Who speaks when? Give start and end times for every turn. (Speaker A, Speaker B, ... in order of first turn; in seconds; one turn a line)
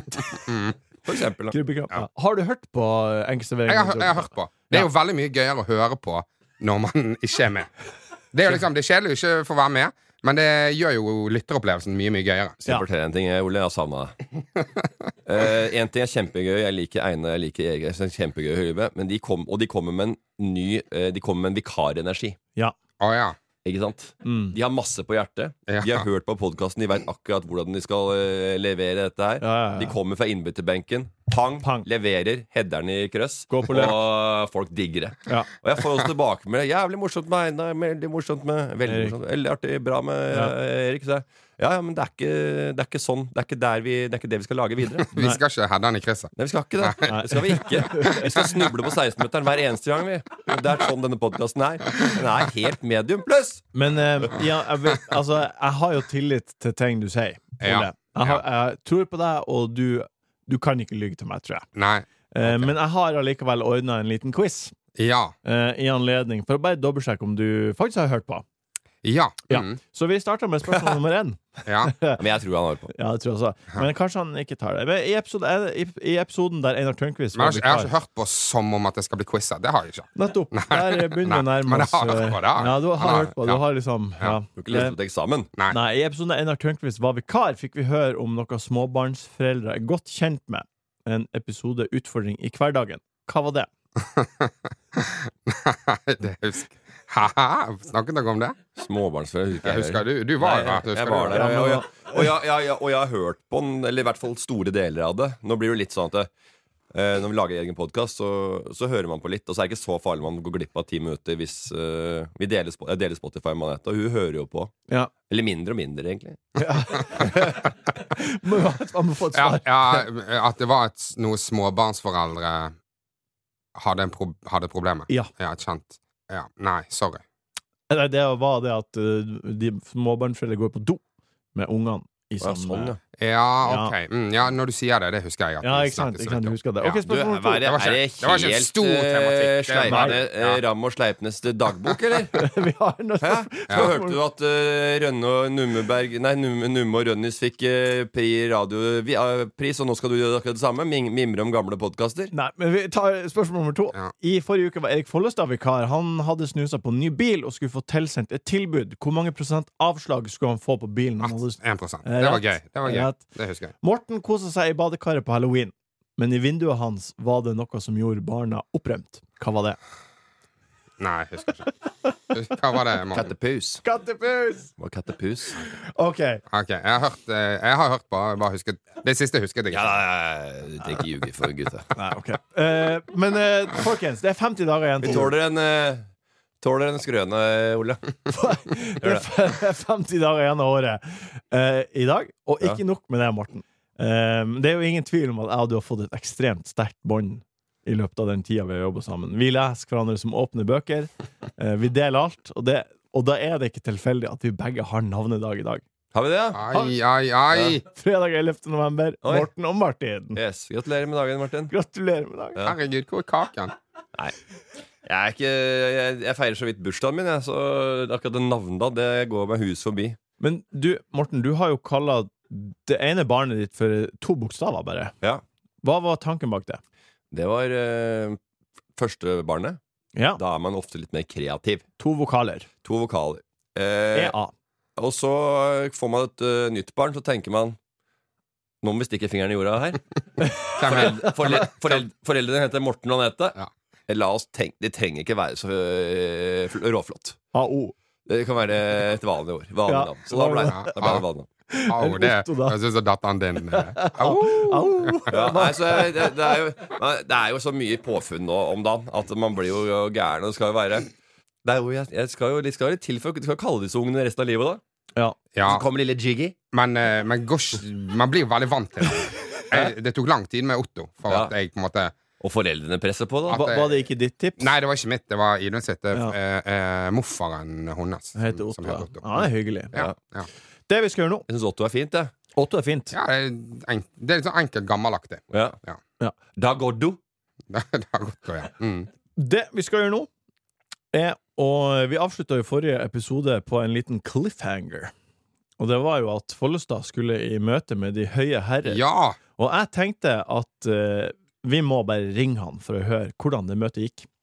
Speaker A: 0.5-0.7
Speaker B: 1.1-1.6
Speaker C: 1.5-4.8
Speaker A: 3.7-7.7
Speaker A: 8.3-12.7
Speaker B: 12.7-14.2
Speaker B: 15.2-22.4
Speaker A: 23.0-23.4
Speaker B: 23.6-45.1
Speaker C: 24.2-24.6
Speaker A: 25.7-26.0
Speaker C: 29.4-29.9
Speaker C: 31.6-31.9
Speaker C: 33.5-34.0
Speaker C: 38.9-39.1
Speaker A: 45.1-47.0
Speaker B: 46.4-53.6
Speaker C: 47.1-48.4
Speaker C: 53.7-61.7
Speaker A: 57.6-58.4
Speaker A: 61.7-62.7
Speaker C: 62.3-64.7
Speaker A: 65.0-65.3
Speaker C: 65.4-68.4
Speaker A: 69.0-69.8
Speaker C: 69.5-72.2
Speaker A: 71.7-71.9
Speaker B: 72.2-72.9
Speaker C: 72.9-77.9
Speaker A: 77.3-83.6
Speaker C: 80.2-84.9
Speaker B: 84.6-85.5
Speaker C: 85.7-93.7
Speaker A: 94.0-98.6
Speaker B: 98.8-106.3
Speaker A: 99.6-101.6
Speaker C: 101.3-102.3
Speaker B: 106.9-114.7
Speaker B: 115.3-117.3
Speaker C: 116.6-120.0
Speaker A: 119.3-122.7
Speaker A: 123.8-127.2
Speaker C: 127.9-131.0
Speaker C: 131.5-132.9
Speaker B: 132.4-133.0
Speaker A: 133.2-137.0
Speaker C: 133.6-133.9
Speaker C: 135.6-137.8
Speaker B: 137.1-142.4
Speaker A: 137.7-140.6
Speaker C: 139.9-140.2
Speaker C: 142.4-144.2
Speaker B: 143.2-152.3
Speaker C: 152.3-163.2
Speaker A: 161.2-163.7
Speaker C: 163.8-169.8
Speaker A: 171.0-171.7
Speaker A: 172.3-173.3
Speaker B: 173.1-173.8
Speaker C: 173.8-174.7
Speaker B: 174.8-175.6
Speaker C: 175.8-176.4
Speaker A: 176.5-180.0
Speaker B: 179.7-181.9
Speaker C: 181.9-185.3
Speaker B: 185.0-186.1
Speaker B: 186.6-188.2
Speaker C: 188.3-205.8
Speaker B: 189.0-189.3
Speaker B: 206.1-206.6
Speaker A: 206.5-207.8
Speaker C: 207.9-210.4
Speaker B: 209.2-209.5
Speaker B: 210.3-211.7
Speaker C: 211.7-212.6
Speaker A: 212.6-213.7
Speaker B: 215.0-220.2
Speaker C: 220.4-225.1
Speaker C: 225.8-226.8
Speaker B: 227.3-228.4
Speaker B: 228.9-229.8
Speaker B: 230.4-231.8
Speaker C: 232.0-232.7
Speaker B: 232.8-234.3
Speaker C: 234.1-234.5
Speaker B: 235.0-237.8
Speaker B: 238.8-240.0
Speaker C: 240.4-241.3
Speaker A: 240.8-242.0
Speaker B: 240.8-243.6
Speaker B: 244.1-247.4
Speaker C: 247.5-247.9
Speaker B: 248.2-251.5
Speaker C: 249.9-251.2
Speaker A: 250.7-251.2
Speaker C: 251.7-252.8
Speaker A: 251.9-255.2
Speaker C: 253.7-256.5
Speaker B: 255.3-261.1
Speaker B: 261.6-264.8
Speaker A: 265.6-265.8
Speaker B: 265.6-266.5
Speaker A: 266.7-272.1
Speaker B: 272.4-273.7
Speaker A: 273.5-274.0
Speaker C: 273.6-274.7
Speaker A: 274.6-280.5
Speaker C: 278.4-279.9
Speaker C: 280.9-281.4
Speaker B: 281.5-282.3
Speaker C: 282.6-283.2
Speaker A: 283.1-286.0
Speaker B: 285.5-285.8
Speaker B: 286.5-287.2
Speaker A: 287.7-289.1
Speaker C: 289.4-290.3
Speaker C: 291.1-295.1
Speaker C: 295.8-299.0
Speaker A: 298.8-299.4
Speaker C: 299.6-304.3